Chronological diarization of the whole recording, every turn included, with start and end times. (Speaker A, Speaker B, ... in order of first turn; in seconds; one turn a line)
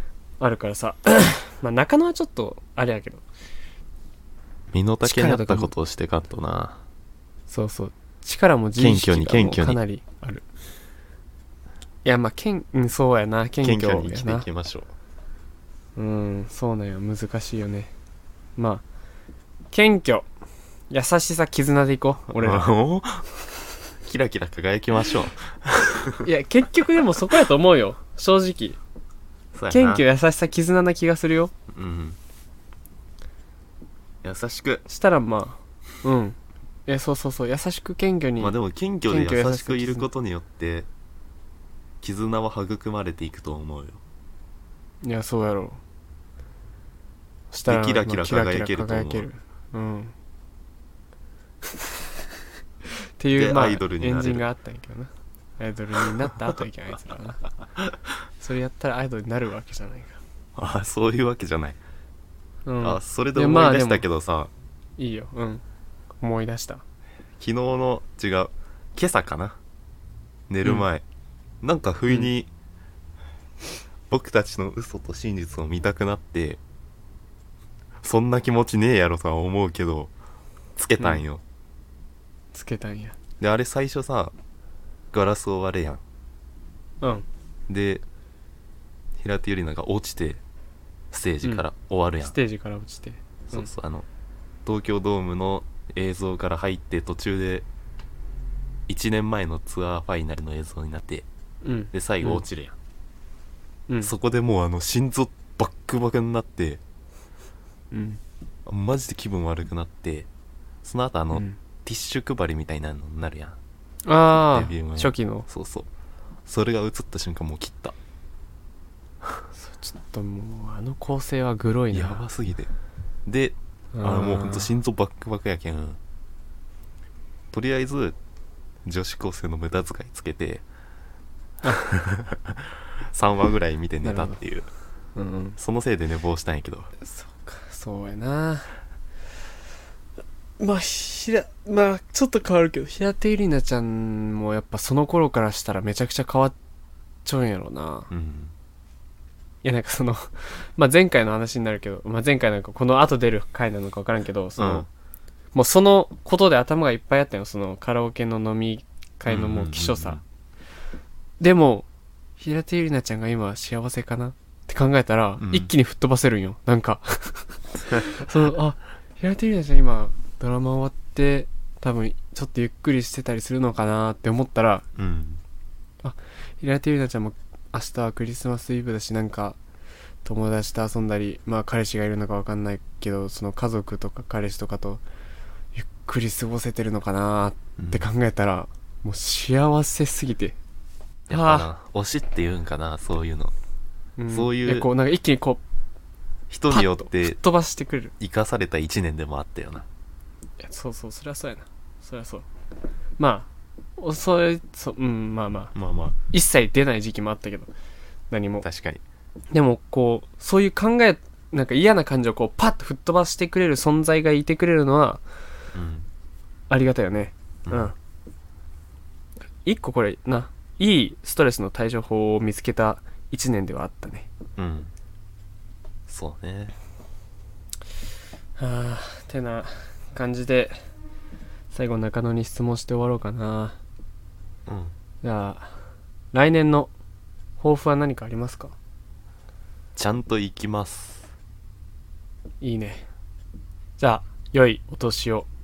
Speaker A: 0.4-3.2
Speaker B: 4.7-6.8
Speaker A: 5.0-5.7
Speaker A: 7.5-10.4
Speaker B: 8.8-9.8
Speaker A: 12.0-14.5
Speaker B: 13.6-14.9
Speaker A: 15.9-17.9
Speaker A: 18.6-18.8
Speaker A: 19.7-20.3
Speaker A: 20.9-22.7
Speaker B: 22.3-23.3
Speaker B: 24.0-26.2
Speaker A: 26.2-28.8
Speaker B: 29.5-30.0
Speaker A: 29.7-31.5
Speaker B: 31.7-32.2
Speaker B: 34.2-34.9
Speaker A: 34.9-38.5
Speaker B: 38.4-40.9
Speaker A: 39.1-40.1
Speaker B: 42.0-44.0
Speaker A: 45.0-45.8
Speaker A: 47.5-50.1
Speaker B: 47.7-49.3
Speaker A: 53.2-57.4
Speaker B: 53.3-54.4
Speaker A: 58.4-60.2
Speaker B: 60.5-61.8
Speaker A: 62.6-64.0
Speaker B: 62.8-64.5
Speaker A: 65.0-65.6
Speaker A: 66.2-66.8
Speaker B: 67.4-69.6
Speaker B: 70.5-71.0
Speaker B: 71.6-72.5
Speaker B: 74.1-76.6
Speaker B: 78.0-80.1
Speaker B: 80.8-81.4
Speaker A: 81.0-81.2
Speaker A: 82.5-83.2
Speaker B: 83.4-84.3
Speaker B: 85.1-86.0
Speaker A: 87.0-87.3
Speaker B: 87.7-88.0
Speaker B: 89.2-90.4
Speaker B: 91.1-92.3
Speaker A: 92.2-93.7
Speaker B: 93.5-94.0
Speaker B: 94.6-97.7
Speaker B: 98.9-101.2
Speaker A: 101.6-102.4
Speaker B: 101.9-102.8
Speaker B: 104.0-106.8
Speaker A: 107.9-108.2
Speaker B: 108.7-110.3
Speaker B: 110.8-113.6
Speaker A: 111.3-111.6
Speaker A: 114.0-115.5
Speaker B: 114.5-115.9
Speaker B: 116.5-118.0
Speaker A: 119.6-122.2
Speaker B: 121.9-122.7
Speaker B: 123.2-126.0
Speaker A: 123.9-124.7
Speaker B: 127.5-128.2
Speaker B: 128.8-130.6
Speaker B: 131.8-134.7
Speaker A: 134.0-134.4
Speaker A: 135.2-135.6
Speaker B: 135.6-136.9
Speaker A: 137.0-138.7
Speaker A: 140.6-146.5
Speaker A: 147.2-148.1
Speaker B: 148.1-148.5
Speaker A: 149.6-154.9
Speaker B: 154.6-154.9
Speaker A: 155.5-160.2
Speaker B: 159.3-160.2
Speaker A: 161.4-161.9
Speaker A: 162.4-174.8
Speaker B: 165.4-165.7
Speaker B: 174.9-175.4
Speaker A: 176.0-179.6
Speaker A: 180.2-185.0
Speaker A: 185.7-190.6
Speaker B: 187.8-188.1
Speaker B: 191.3-193.5
Speaker A: 191.3-191.7
Speaker A: 194.2-195.6
Speaker B: 194.3-194.9
Speaker B: 196.5-197.4
Speaker A: 196.7-198.1
Speaker B: 198.2-199.9
Speaker A: 200.6-202.5
Speaker A: 203.2-205.7
Speaker B: 205.7-206.2
Speaker A: 206.3-207.7
Speaker A: 208.3-208.7
Speaker B: 208.6-209.0
Speaker A: 209.5-215.2
Speaker B: 215.7-216.1
Speaker A: 216.7-217.9
Speaker B: 217.7-217.9
Speaker A: 219.6-224.3
Speaker B: 224.6-224.9
Speaker B: 226.1-226.8
Speaker A: 228.6-230.8
Speaker A: 231.7-233.8
Speaker B: 234.7-234.9
Speaker A: 235.2-235.8
Speaker A: 236.3-236.9
Speaker A: 237.6-238.7
Speaker B: 239.9-241.3
Speaker A: 242.6-243.1
Speaker A: 244.0-245.5